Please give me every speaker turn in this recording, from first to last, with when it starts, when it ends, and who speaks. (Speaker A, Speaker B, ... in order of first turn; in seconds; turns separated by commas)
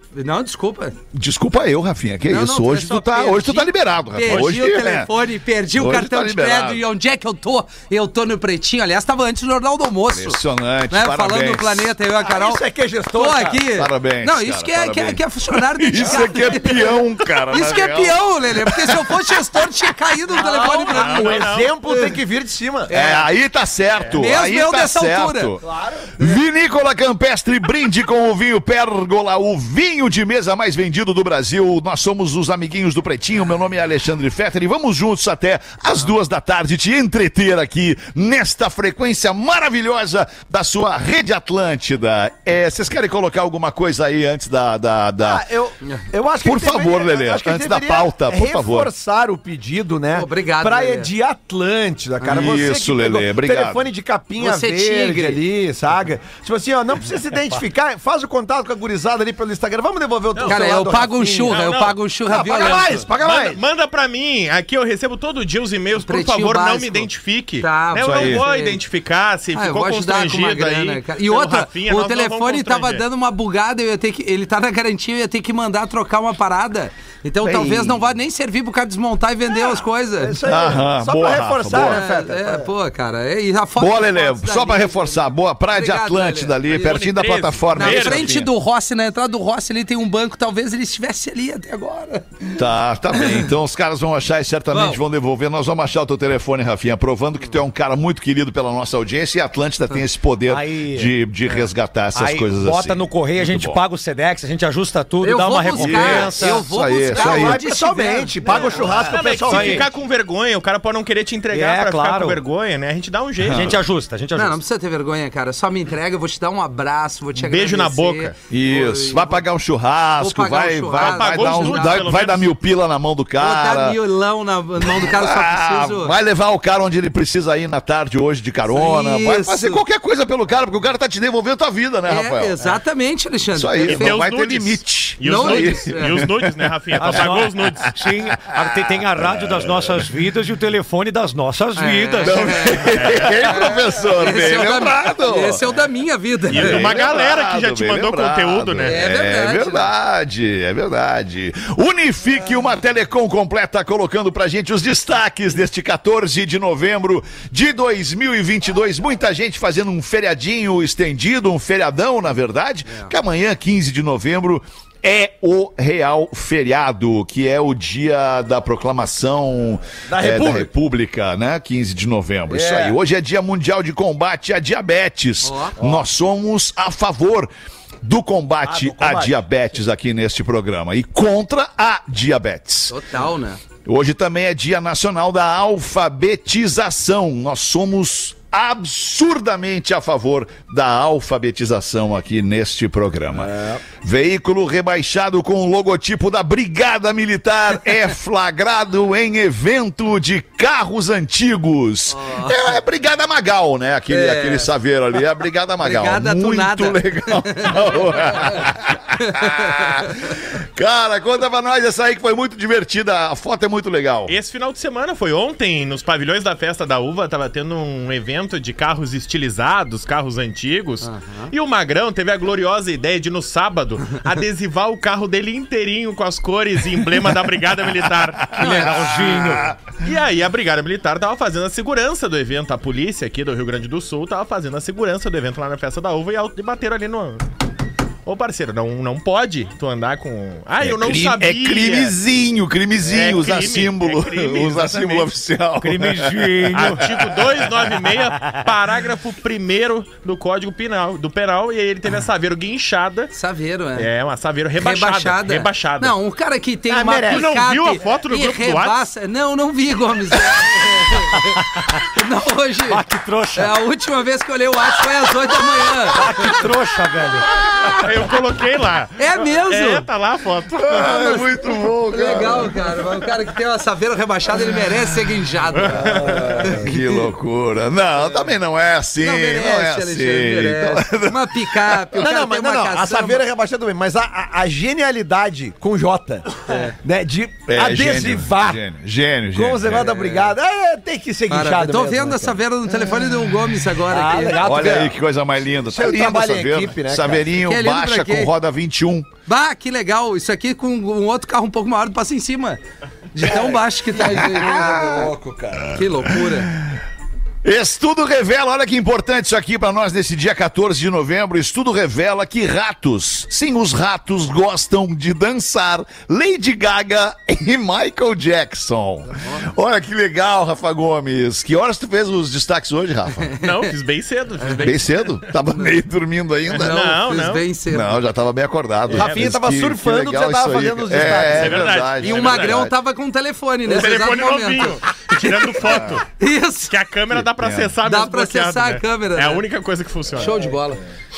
Speaker A: 0.1-1.0, Speaker B: 1.1-5.1, Speaker A: 2.3-10.4, Speaker B: 5.7-6.8, Speaker B: 10.1-11.9, Speaker A: 10.9-12.6, Speaker C: 12.2-13.7, Speaker A: 13.1-22.1, Speaker B: 13.7-19.6, Speaker C: 20.3-22.9, Speaker D: 20.9-21.8, Speaker A: 22.9-23.3, Speaker B: 22.9-25.7, Speaker A: 24.1-25.5, Speaker C: 25.6-26.1, Speaker B: 26.2-45.5, Speaker C: 45.2-61.6, Speaker B: 46.4-48.9, Speaker A: 50.1-51.1, Speaker A: 52.2-52.6, Speaker B: 52.3-53.9, Speaker A: 54.4-55.4, Speaker A: 60.4-62.9, Speaker D: 61.5-62.0, Speaker C: 62.3-63.6, Speaker D: 62.6-73.0, Speaker A: 66.0-67.1, Speaker A: 67.6-68.8, Speaker B: 68.0-68.4, Speaker A: 69.5-80.4, Speaker C: 77.4-78.0, Speaker C: 80.2-82.7, Speaker B: 80.4-82.0, Speaker A: 81.8-87.0, Speaker B: 83.8-88.5, Speaker D: 86.7-88.3, Speaker A: 87.8-92.5, Speaker B: 92.5-103.8, Speaker A: 93.2-93.5, Speaker A: 94.7-95.0, Speaker E: 100.5-101.1, Speaker E: 102.2-106.7, Speaker A: 105.2-108.8, Speaker B: 105.7-107.6, Speaker C: 107.1-109.9, Speaker D: 108.5-113.8, Speaker E: 109.4-109.9, Speaker E: 111.5-112.4, Speaker B: 113.4-113.8, Speaker E: 113.5-114.6, Speaker A: 114.3-119.4, Speaker D: 117.3-118.3, Speaker B: 118.5-124.0, Speaker A: 120.2-122.0, Speaker D: 121.0-122.6, Speaker A: 123.4-126.2, Speaker B: 124.8-132.6, Speaker A: 128.7-129.8, Speaker A: 132.1-134.2, Speaker B: 133.5-136.4, Speaker D: 133.9-137.9, Speaker A: 135.2-136.2, Speaker E: 137.0-142.6, Speaker B: 138.3-140.1, Speaker A: 141.8-146.9, Speaker B: 142.2-145.7, Speaker D: 142.9-143.5, Speaker D: 146.5-149.0, Speaker B: 146.5-177.5, Speaker A: 148.8-149.9, Speaker C: 170.1-170.7, Speaker C: 172.5-173.0, Speaker A: 175.4-175.8, Speaker C: 175.8-176.1, Speaker B: 178.0-183.0, Speaker C: 178.6-179.4, Speaker A: 182.9-183.6, Speaker B: 183.9-214.3, Speaker C: 193.3-193.8, Speaker A: 202.1-202.6, Speaker A: 204.1-204.7, Speaker A: 205.8-208.5, Speaker A: 209.2-210.1, Speaker D: 214.3-228.9, Speaker A: 221.0-221.5, Speaker E: 228.5-229.8, Speaker B: 228.6-229.8, Speaker D: 229.9-237.4, Speaker D: 238.2-242.2, Speaker B: 240.8-247.1, Speaker D: 243.0-245.3, Speaker E: 245.8-247.1, Speaker D: 246.7-253.3, Speaker A: 253.3-254.1, Speaker D: 254.0-256.1, Speaker A: 254.8-263.0, Speaker C: 256.9-257.5, Speaker D: 257.3-259.0, Speaker E: 262.9-263.8, Speaker A: 263.5-266.5, Speaker E: 266.1-267.5, Speaker D: 267.9-271.2, Speaker A: 269.2-270.1, Speaker B: 270.8-272.9, Speaker A: 271.1-271.4, Speaker A: 272.1-277.3, Speaker D: 275.7-276.5, Speaker C: 276.0-276.9, Speaker B: 276.4-282.2, Speaker A: 279.2-283.4, Speaker C: 282.2-288.8, Speaker A: 286.7-286.9, Speaker B: 287.7-290.1, Speaker C: 289.5-293.3, Speaker A: 289.9-290.5, Speaker A: 291.5-294.6, Speaker C: 294.1-295.1, Speaker B: 294.6-299.3, Speaker C: 295.9-297.5, Speaker A: 297.7-298.5, Speaker A: 299.5-302.8, Speaker A: 303.3-305.3, Speaker C: 303.4-306.0, Speaker A: 305.9-306.7, Speaker B: 307.6-323.5, Speaker D: 323.6-325.2, Speaker A: 324.6-324.9, Speaker B: 324.8-327.2, Speaker A: 325.7-326.0, Speaker D: 326.7-327.6, Speaker A: 326.8-328.2, Speaker B: 327.9-332.9, Speaker D: 329.1-329.5, Speaker C: 329.1-332.0, Speaker D: 331.4-332.8, Speaker A: 332.2-335.8, Speaker D: 333.9-336.3, Speaker B: 335.8-336.2, Speaker A: 336.4-336.9, Speaker D: 336.9-340.6, Speaker B: 337.3-338.0, Speaker A: 338.1-339.6, Speaker A: 340.4-341.0, Speaker C: 340.4-340.8